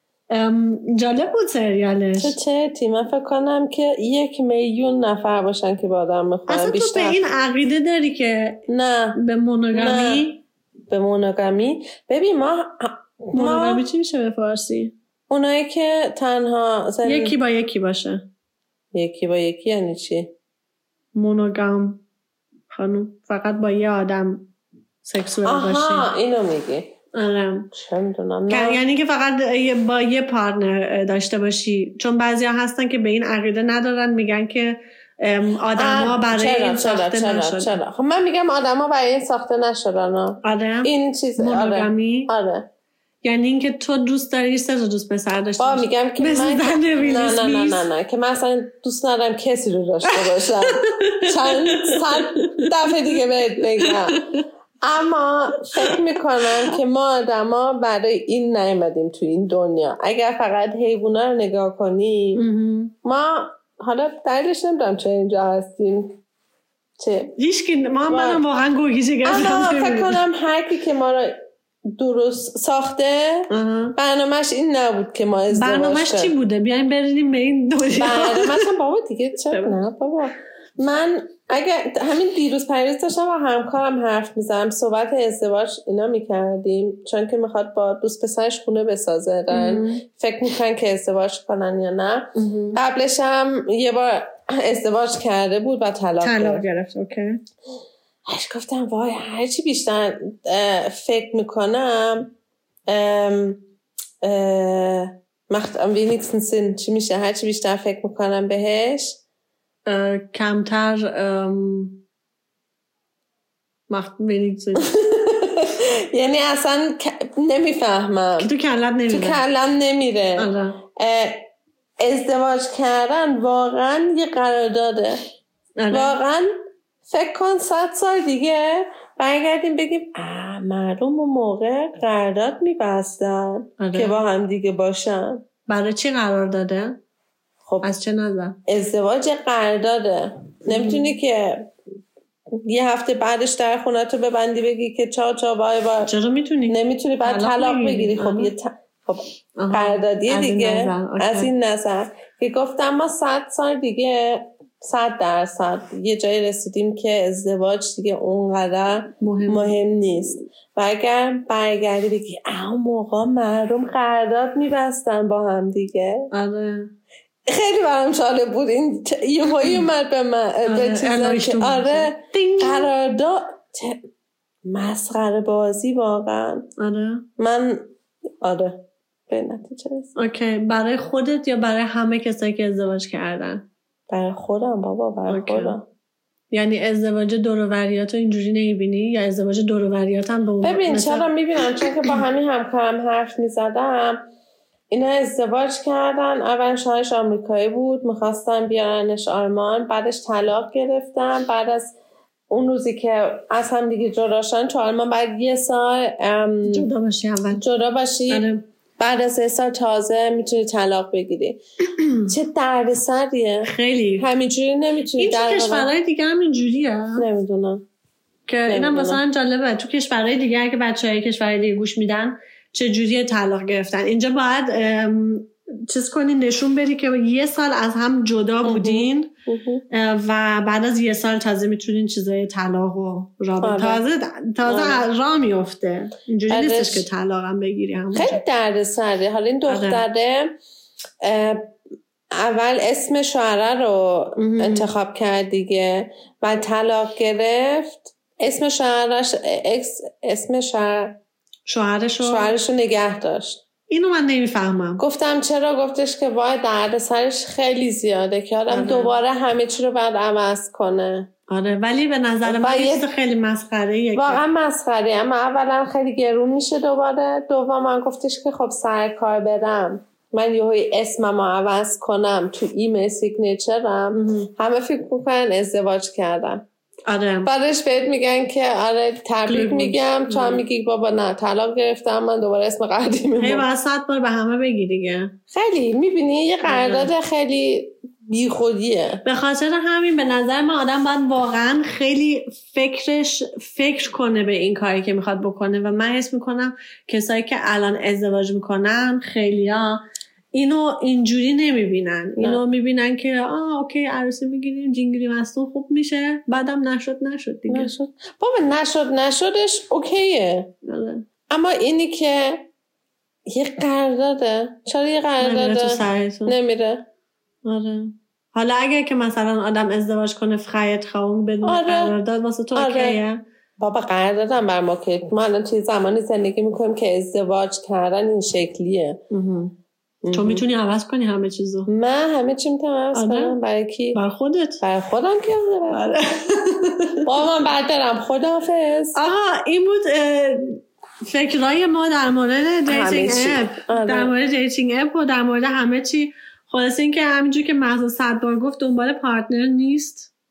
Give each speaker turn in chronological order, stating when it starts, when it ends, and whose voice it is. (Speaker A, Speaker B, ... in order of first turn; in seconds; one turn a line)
Speaker A: 0.3-2.4
Speaker B: 2.2-7.2
Speaker A: 6.5-8.6
Speaker B: 8.7-9.2
Speaker A: 9.2-10.4
Speaker B: 9.7-10.3
Speaker B: 10.9-13.8
Speaker A: 13.3-14.9
Speaker B: 15.3-17.4
Speaker A: 17.0-18.2
Speaker B: 18.9-20.3
Speaker A: 21.1-22.0
Speaker A: 22.7-24.5
Speaker A: 25.0-26.1
Speaker B: 25.4-26.9
Speaker A: 27.1-27.7
Speaker B: 27.7-28.8
Speaker A: 28.5-37.8
Speaker B: 35.8-42.7
Speaker A: 40.4-42.3
Speaker A: 43.2-47.9
Speaker B: 45.6-54.2
Speaker A: 50.0-54.4
Speaker B: 54.8-62.4
Speaker A: 55.8-56.8
Speaker A: 62.4-62.9
Speaker B: 63.0-66.2
Speaker B: 67.0-67.3
Speaker A: 67.4-70.2
Speaker B: 68.1-68.4
Speaker B: 69.2-71.3
Speaker B: 71.9-76.3
Speaker A: 73.5-74.0
Speaker A: 75.5-78.7
Speaker B: 78.0-96.6
Speaker A: 79.5-79.8
Speaker A: 89.5-90.0
Speaker A: 92.3-92.8
Speaker A: 96.2-97.4
Speaker B: 98.2-102.3
Speaker B: 102.9-103.7
Speaker B: 104.2-109.2
Speaker A: 109.8-112.0
Speaker A: 113.9-114.9
Speaker B: 114.8-118.5
Speaker A: 118.4-119.4
Speaker B: 119.1-121.5
Speaker A: 120.4-120.8
Speaker B: 122.0-125.2
Speaker A: 125.8-126.2
Speaker B: 125.9-126.5
Speaker B: 127.1-135.4
Speaker A: 133.8-134.2
Speaker A: 135.7-137.0
Speaker A: 137.8-138.6
Speaker B: 138.7-141.7
Speaker A: 140.7-141.1
Speaker B: 142.5-146.1
Speaker A: 146.1-148.5
Speaker B: 146.7-166.3
Speaker A: 149.6-151.5
Speaker A: 159.2-159.7
Speaker A: 166.3-166.9
Speaker B: 167.4-174.0
Speaker A: 170.7-172.9
Speaker B: 174.6-176.7
Speaker A: 176.8-177.2
Speaker B: 177.4-177.9
Speaker B: 178.4-180.1
Speaker A: 180.2-183.7
Speaker B: 184.1-185.8
Speaker A: 185.3-185.8
Speaker A: 186.5-191.8
Speaker B: 190.6-194.2
Speaker B: 194.9-201.9
Speaker B: 202.5-206.9
Speaker A: 206.6-207.6
Speaker B: 207.6-208.5
Speaker A: 208.3-208.6
Speaker B: 209.0-211.6
Speaker A: 211.9-212.3
Speaker B: 212.3-215.9
Speaker A: 213.6-214.3
Speaker A: 215.2-217.2
Speaker B: 217.2-217.8
Speaker A: 218.5-229.3
Speaker B: 218.7-219.2
Speaker B: 228.6-229.8
Speaker A: 229.9-238.4
Speaker B: 233.6-234.0
Speaker B: 234.6-235.0
Speaker B: 236.5-237.1
Speaker B: 238.1-240.6
Speaker A: 239.7-240.0
Speaker B: 241.2-241.7
Speaker B: 242.3-251.2
Speaker A: 244.3-244.9
Speaker A: 251.7-252.5
Speaker B: 252.2-253.6
Speaker A: 253.9-255.0
Speaker B: 255.0-261.3
Speaker A: 258.7-259.1
Speaker A: 261.5-264.4
Speaker B: 262.4-263.1
Speaker B: 264.1-276.7
Speaker A: 274.1-274.5
Speaker A: 277.1-277.5
Speaker B: 277.4-283.6
Speaker A: 279.4-280.6
Speaker A: 283.4-285.3
Speaker B: 285.5-289.2
Speaker A: 286.6-287.1
Speaker A: 289.2-300.0
Speaker A: 300.5-307.9
Speaker B: 307.7-310.7
Speaker A: 310.8-311.2
Speaker B: 311.5-312.7
Speaker B: 313.4-317.1
Speaker A: 315.4-316.5
Speaker A: 317.6-323.4
Speaker B: 321.6-322.1
Speaker B: 322.8-323.2
Speaker B: 323.8-329.2
Speaker A: 329.3-329.8
Speaker B: 330.2-330.6
Speaker A: 330.3-331.9
Speaker B: 331.9-334.2
Speaker A: 333.1-333.6
Speaker A: 334.1-334.8
Speaker B: 334.8-336.2
Speaker A: 335.9-337.3
Speaker B: 337.2-339.2
Speaker A: 339.1-350.3
Speaker B: 342.9-344.3